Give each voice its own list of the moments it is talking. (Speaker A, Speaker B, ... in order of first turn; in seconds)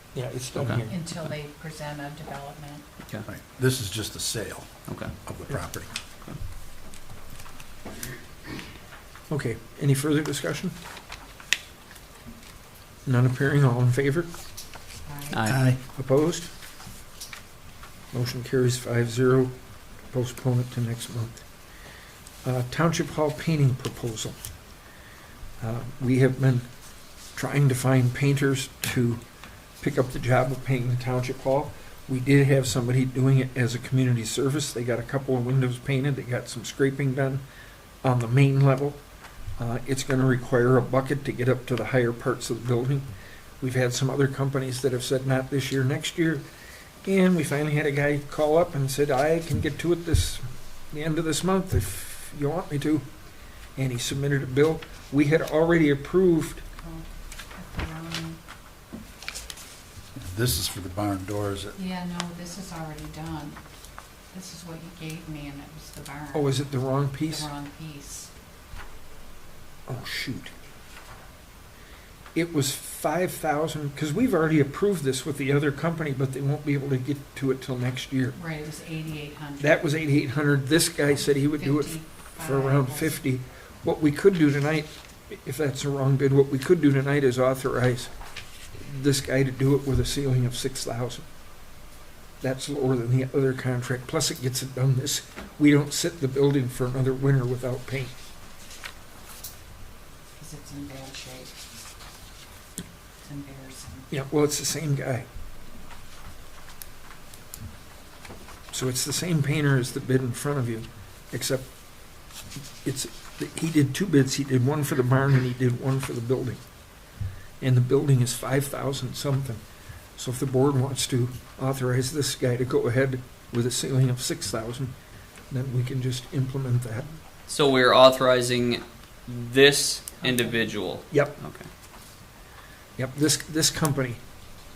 Speaker A: 0.1-1.1, 9.3-10.8, 13.0-14.3, 15.9-16.5, 18.1-21.4, 22.4-24.4, 25.6-26.7, 27.3-29.2, 29.8-37.4, 38.0-39.0, 39.6-43.1, 43.6-46.5, 47.0-53.1, 53.8-56.6, 66.3-67.5, 69.9-70.5, 72.3-78.4, 79.6-88.1, 88.7-91.3, 92.4-98.1, 104.1-105.3, 108.7-111.7, 112.8-116.6, 117.6-119.6, 120.2-124.9, 125.5-127.1, 131.1-131.3, 133.0-134.2
Speaker B: 0.6-0.8, 4.9-5.1, 15.3-15.6, 127.5-131.7
Speaker C: 0.9-2.9, 15.0-15.4, 56.8-58.4, 61.7-63.6, 64.3-66.6, 67.2-68.3, 78.3-79.8, 81.1-83.2, 100.4-101.5, 103.2-104.1, 130.2-130.7
Speaker D: 3.2-4.7, 5.2-5.9, 15.5-15.8, 60.1-61.8